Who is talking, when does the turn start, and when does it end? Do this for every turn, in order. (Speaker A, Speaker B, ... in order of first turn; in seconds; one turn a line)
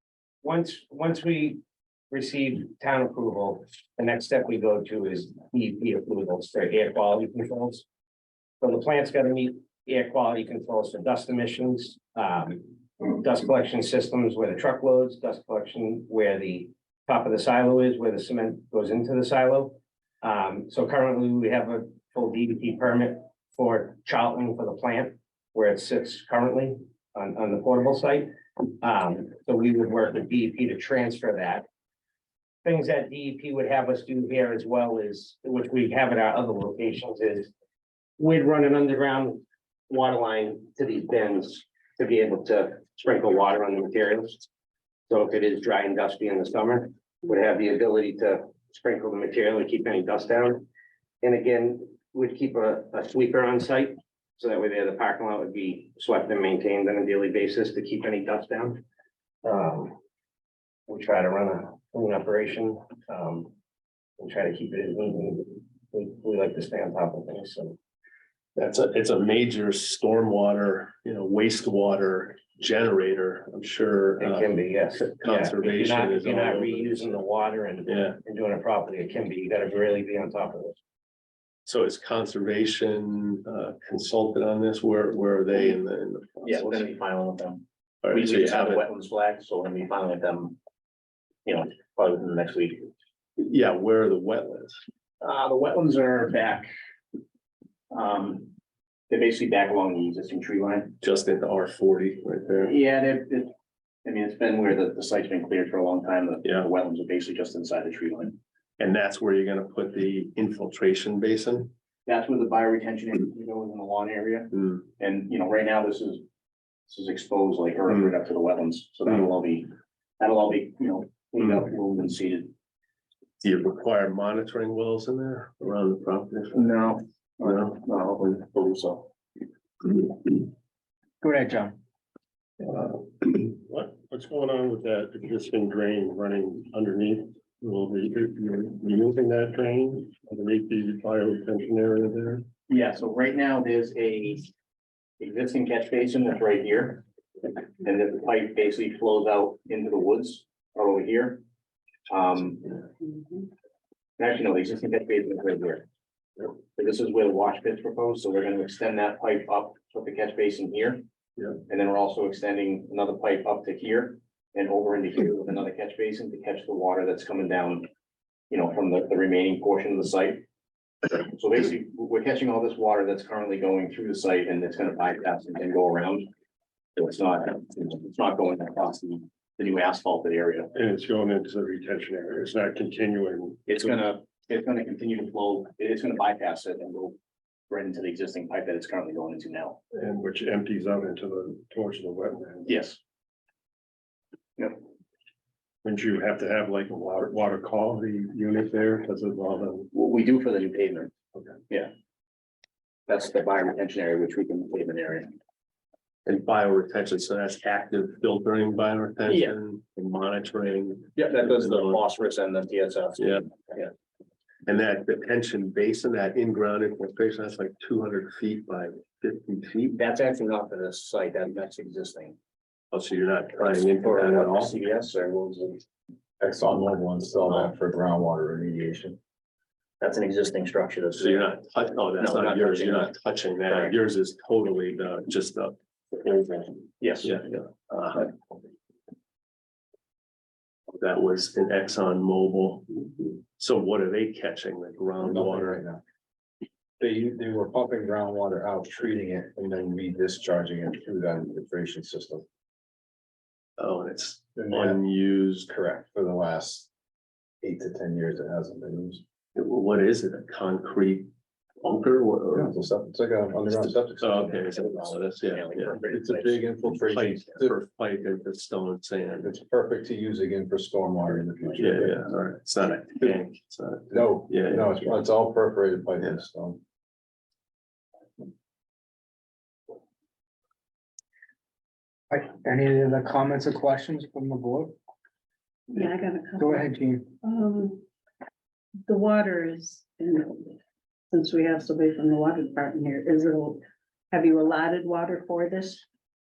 Speaker A: 0.4-1.6
Speaker A: 2.1-7.8
Speaker A: 8.6-31.6
Speaker A: 32.6-37.5
Speaker A: 38.2-44.4
Speaker A: 45.1-50.6
Speaker A: 51.2-58.8
Speaker A: 59.4-60.0
Speaker A: 60.9-63.5
Speaker A: 64.2-67.8
Speaker B: 68.5-77.2
Speaker A: 74.2-80.8
Speaker B: 77.8-78.2
Speaker B: 81.7-86.8
Speaker C: 86.4-90.6
Speaker B: 88.0-88.9
Speaker C: 91.4-92.9
Speaker B: 93.4-94.8
Speaker C: 95.2-96.7
Speaker C: 97.9-98.5
Speaker C: 99.1-100.9
Speaker B: 101.0-102.7
Speaker C: 102.6-103.5
Speaker C: 104.0-108.4
Speaker B: 108.8-111.7
Speaker C: 112.0-116.2
Speaker C: 116.9-122.5
Speaker B: 123.4-126.8
Speaker C: 126.5-129.1
Speaker B: 127.4-127.7
Speaker D: 131.2-131.8
Speaker E: 132.7-142.5
Speaker C: 142.7-144.5
Speaker C: 145.2-151.4
Speaker C: 152.1-152.8
Speaker C: 154.2-155.8
Speaker C: 156.7-161.0
Speaker C: 161.7-167.8
Speaker C: 168.5-170.4
Speaker C: 171.3-176.3
Speaker C: 176.9-180.7
Speaker E: 180.7-183.8
Speaker C: 183.7-187.2
Speaker C: 187.7-189.8
Speaker E: 189.9-192.8
Speaker C: 192.7-193.0
Speaker E: 195.8-199.9
Speaker C: 199.9-201.1
Speaker C: 203.1-205.3
Speaker B: 206.2-212.0
Speaker C: 209.3-209.5
Speaker C: 211.2-213.9
Speaker B: 213.2-213.4
Speaker B: 214.6-220.0
Speaker C: 219.9-222.3
Speaker B: 222.9-224.8
Speaker C: 223.6-225.8
Speaker F: 226.4-229.2
Speaker C: 227.4-227.7
Speaker C: 230.0-231.5
Speaker B: 231.2-236.7
Speaker C: 232.2-233.1
Speaker C: 233.7-233.9
Speaker C: 237.0-237.3
Speaker B: 237.2-238.3
Speaker B: 240.9-245.8
Speaker F: 245.2-246.0
Speaker F: 247.0-252.4
Speaker B: 253.8-255.7
Speaker F: 254.6-255.0
Speaker F: 255.7-256.9
Speaker F: 257.6-259.2
Speaker B: 259.5-261.3
Speaker B: 261.8-262.8
Speaker F: 262.5-264.5
Speaker B: 264.2-266.0
Speaker C: 264.5-266.6
Speaker F: 266.1-267.7
Speaker B: 266.9-269.5
Speaker F: 269.4-272.3
Speaker B: 271.8-275.1
Speaker F: 274.1-276.8
Speaker D: 282.3-285.0
Speaker G: 285.9-288.0
Speaker D: 286.6-287.4
Speaker G: 289.1-290.8
Speaker G: 291.3-296.0